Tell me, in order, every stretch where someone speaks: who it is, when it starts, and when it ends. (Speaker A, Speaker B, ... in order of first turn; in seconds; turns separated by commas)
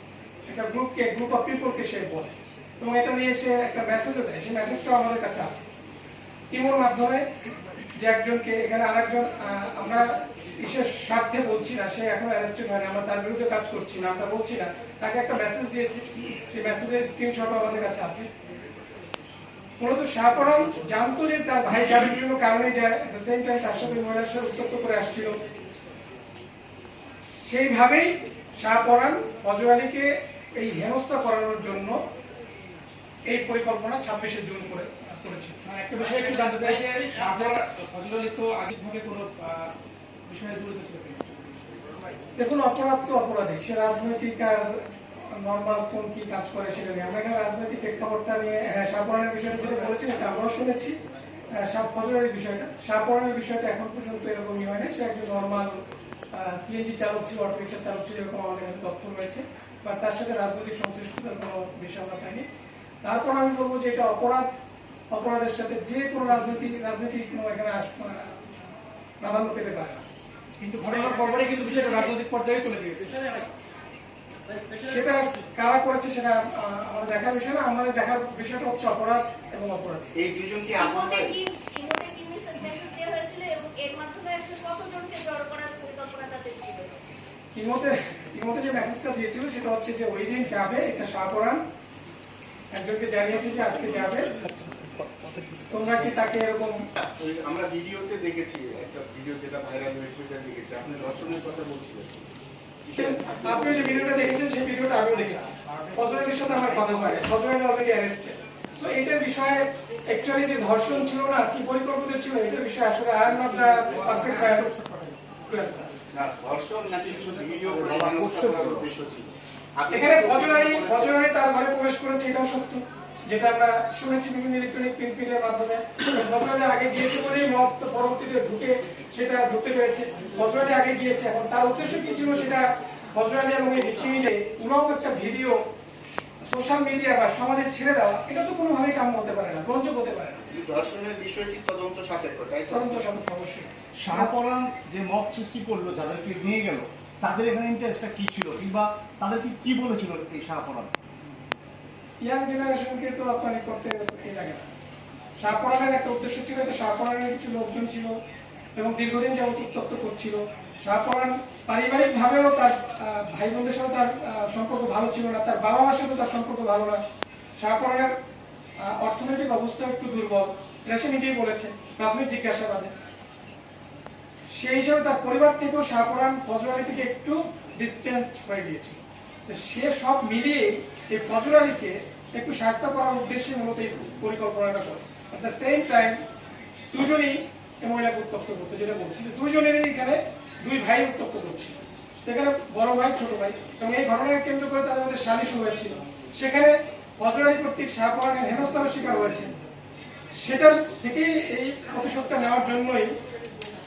Speaker A: 0.5-5.7, Speaker A: 6.5-7.3, Speaker A: 8.0-18.3, Speaker A: 19.8-25.4, Speaker A: 27.4-32.0, Speaker A: 33.3-35.6, Speaker B: 35.6-39.7, Speaker B: 40.3-41.4, Speaker A: 42.4-44.7, Speaker A: 45.3-51.0, Speaker A: 51.5-55.8, Speaker A: 56.3-62.5, Speaker A: 63.0-64.5, Speaker A: 65.1-68.4, Speaker A: 69.2-70.0, Speaker B: 70.6-73.5, Speaker A: 74.8-80.1, Speaker C: 80.2-81.3, Speaker D: 80.7-87.0, Speaker A: 87.5-91.6, Speaker A: 92.7-94.3, Speaker B: 94.3-95.6, Speaker A: 95.7-96.8, Speaker C: 97.0-102.2, Speaker C: 102.8-104.1, Speaker A: 103.0-114.9, Speaker A: 115.4-115.9, Speaker C: 116.1-121.2, Speaker E: 117.6-118.9, Speaker A: 119.9-135.6, Speaker A: 136.4-140.4, Speaker C: 140.5-143.1, Speaker A: 142.7-144.3, Speaker E: 144.0-150.9, Speaker A: 152.2-154.6, Speaker A: 155.4-158.1, Speaker A: 158.7-167.0, Speaker A: 167.6-168.1, Speaker A: 168.8-172.9, Speaker A: 174.5-186.2, Speaker A: 186.9-199.5, Speaker A: 200.3-203.2